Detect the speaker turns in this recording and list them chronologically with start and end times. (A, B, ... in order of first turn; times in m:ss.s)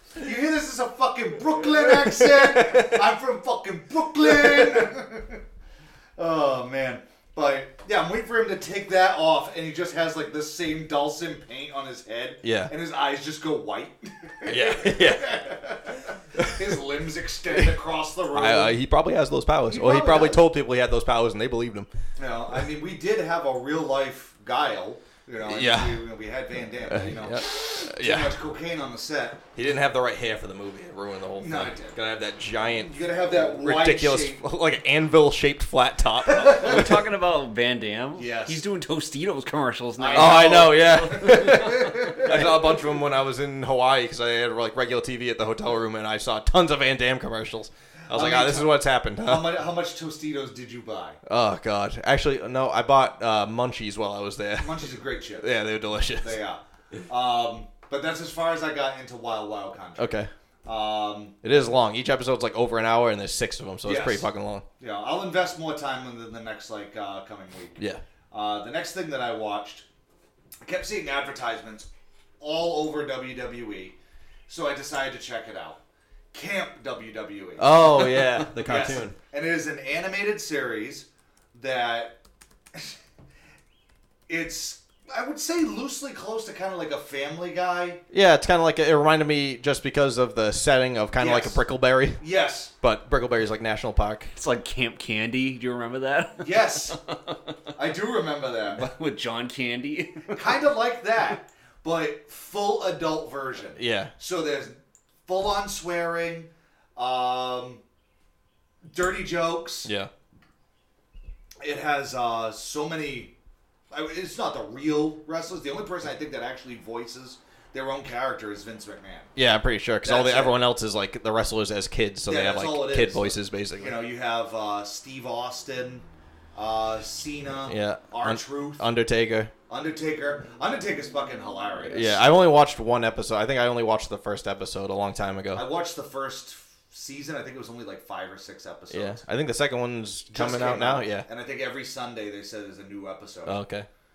0:00.2-0:05.4 A
0:01.6-0:03.0 B
0:04.2-0:04.8 B
0:06.2-0:18.8 A
0:12.4-0:12.7 B
0:14.4-0:15.3 B
0:16.4-0:16.7 B
0:18.3-0:21.9 B
0:19.7-0:20.4 A
0:22.2-0:29.4 A
0:25.4-0:26.1 B
0:26.8-0:28.4 B
0:29.5-0:37.0 B
0:31.4-0:32.0 A
0:32.6-0:34.4 A
0:36.2-0:37.0 A
0:36.5-0:42.8 C
0:38.1-0:38.6 A
0:40.0-0:42.7 A
0:40.1-0:49.5 B
0:48.1-0:51.2 A
0:51.2-0:56.4 B
0:54.6-0:55.5 A
0:56.2-1:01.4 A
1:00.0-1:00.3 B
1:01.4-1:04.6 B
1:03.8-1:04.3 A
1:04.8-1:07.8 A
1:08.3-1:09.8 A
1:10.6-1:11.9 A
1:12.4-1:14.0 A
1:14.5-1:15.8 A
1:16.3-1:22.2 A
1:17.6-1:19.2 B
1:24.3-1:28.0 A
1:28.1-1:32.2 B
1:31.2-1:31.6 A
1:32.2-1:32.7 A
1:32.8-1:34.3 B
1:34.3-1:37.3 C
1:36.4-1:37.0 A
1:37.7-1:38.9 A
1:38.7-1:40.4 C
1:40.3-1:47.8 A
1:43.8-1:44.1 B
1:48.8-1:49.9 A
1:49.8-1:50.1 B
1:51.6-1:53.3 A
1:53.9-1:59.3 A
1:59.4-2:04.0 B
2:00.0-2:00.6 A
2:02.2-2:08.9 A
2:07.7-2:09.5 B
2:09.7-2:12.2 A
2:11.9-2:15.6 B
2:15.5-2:19.2 A
2:18.9-2:21.3 B
2:20.3-2:23.6 A
2:23.4-2:23.9 B